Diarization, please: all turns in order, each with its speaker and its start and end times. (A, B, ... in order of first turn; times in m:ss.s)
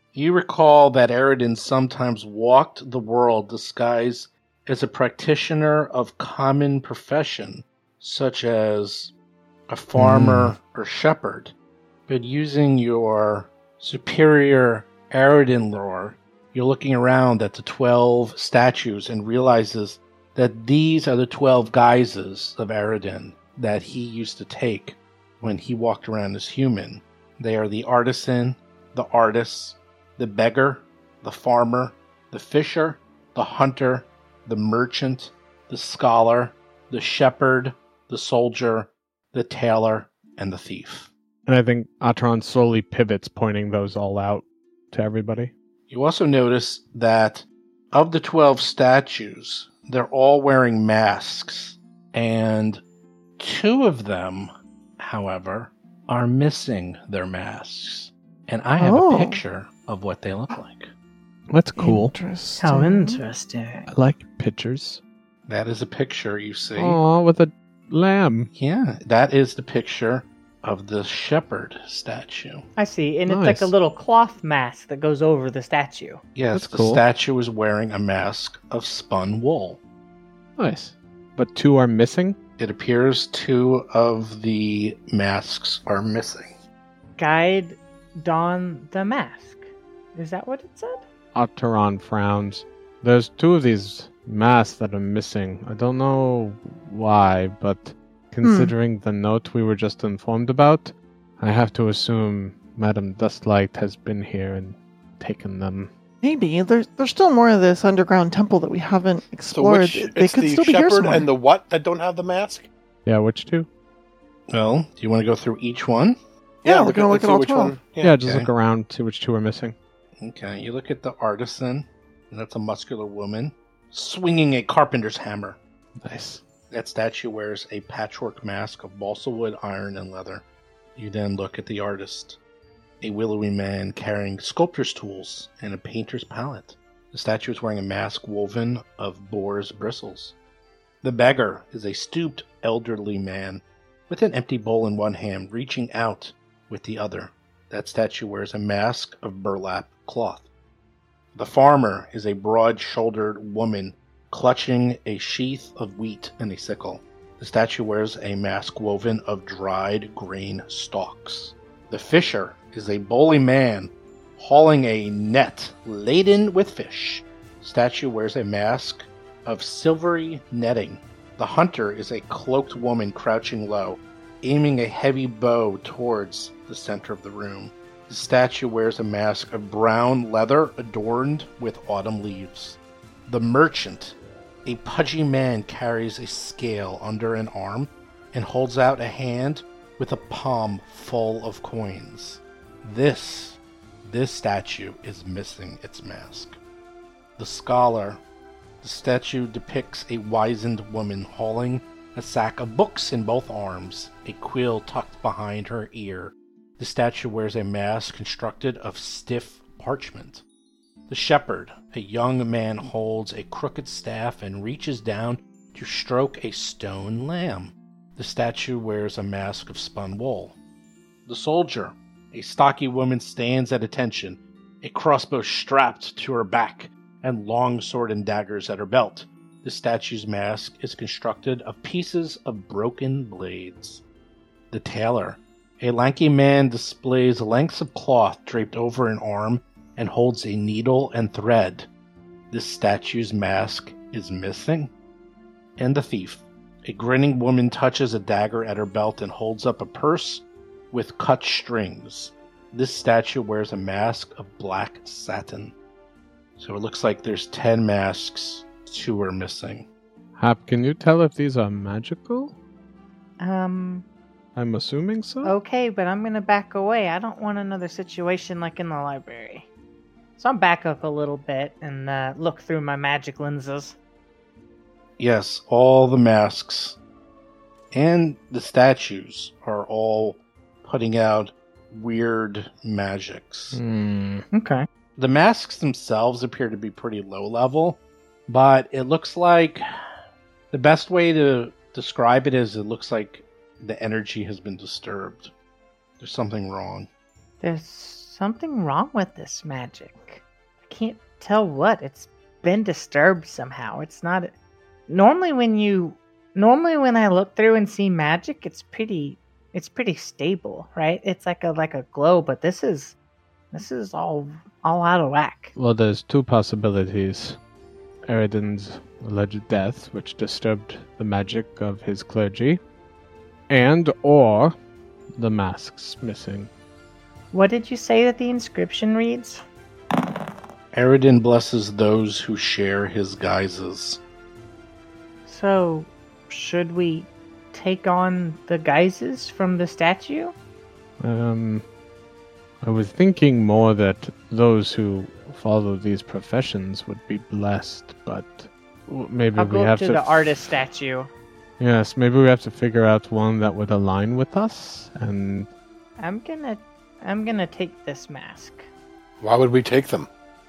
0:00.1-0:09.1 A
0:09.7-0:11.5 A
0:10.0-0:10.6 B
0:12.1-0:41.1 A
0:41.5-0:45.5 B
0:45.9-0:52.8 A
0:53.4-1:00.9 A
0:58.8-0:59.4 C
1:01.5-1:02.1 B
1:01.8-1:03.2 C
1:02.6-1:03.9 D
1:03.9-1:05.0 B
1:05.5-1:07.0 A
1:06.8-1:08.5 B
1:08.5-1:12.6 A
1:12.8-1:16.2 D
1:13.3-1:13.7 B
1:16.3-1:19.8 A
1:16.5-1:17.0 B
1:20.6-1:22.4 B
1:22.6-1:26.5 A
1:27.2-1:31.0 D
1:31.3-1:45.9 B
1:38.4-1:38.7 C
1:46.2-1:51.3 C
1:49.5-1:52.7 E
1:53.0-1:53.7 B
1:54.5-1:56.2 A
1:56.6-1:58.2 E
1:56.6-1:57.8 C
1:58.0-1:59.8 B
1:58.2-1:58.5 A
2:00.2-2:05.6 A
2:06.0-2:06.4 B
2:06.7-2:10.4 A
2:11.0-2:12.4 A
2:13.0-2:20.3 A
2:21.0-2:30.5 A
2:31.3-3:16.6 A
3:17.4-3:18.2 A
3:18.8-3:30.4 A
3:31.1-3:40.6 A
3:41.3-3:54.0 A
3:54.7-4:01.9 A
4:02.5-4:04.9 A
4:05.8-4:15.8 A
4:16.6-4:19.9 A
4:20.4-4:22.5 B
4:23.4-4:24.0 D
4:24.6-4:25.5 B
4:25.4-4:29.7 D
4:30.4-4:34.0 D
4:35.2-4:37.0 A
4:37.9-4:43.8 A
4:43.7-4:44.4 B
4:44.5-4:44.8 D
4:45.2-4:49.8 A
4:50.7-4:55.5 A
4:56.2-4:57.1 A
4:57.6-5:04.5 D
5:05.1-5:13.2 D
5:13.7-5:15.7 D
5:15.8-5:17.6 B
5:18.3-5:22.8 B
5:23.7-5:24.7 B
5:25.4-5:26.7 B
5:27.5-5:29.6 D
5:30.9-5:34.2 A
5:35.5-5:40.5 D
5:41.2-5:41.8 B
5:42.8-5:50.7 B
5:49.6-5:51.3 D
5:51.8-5:55.7 B
5:56.2-5:58.9 D
5:59.4-6:00.3 E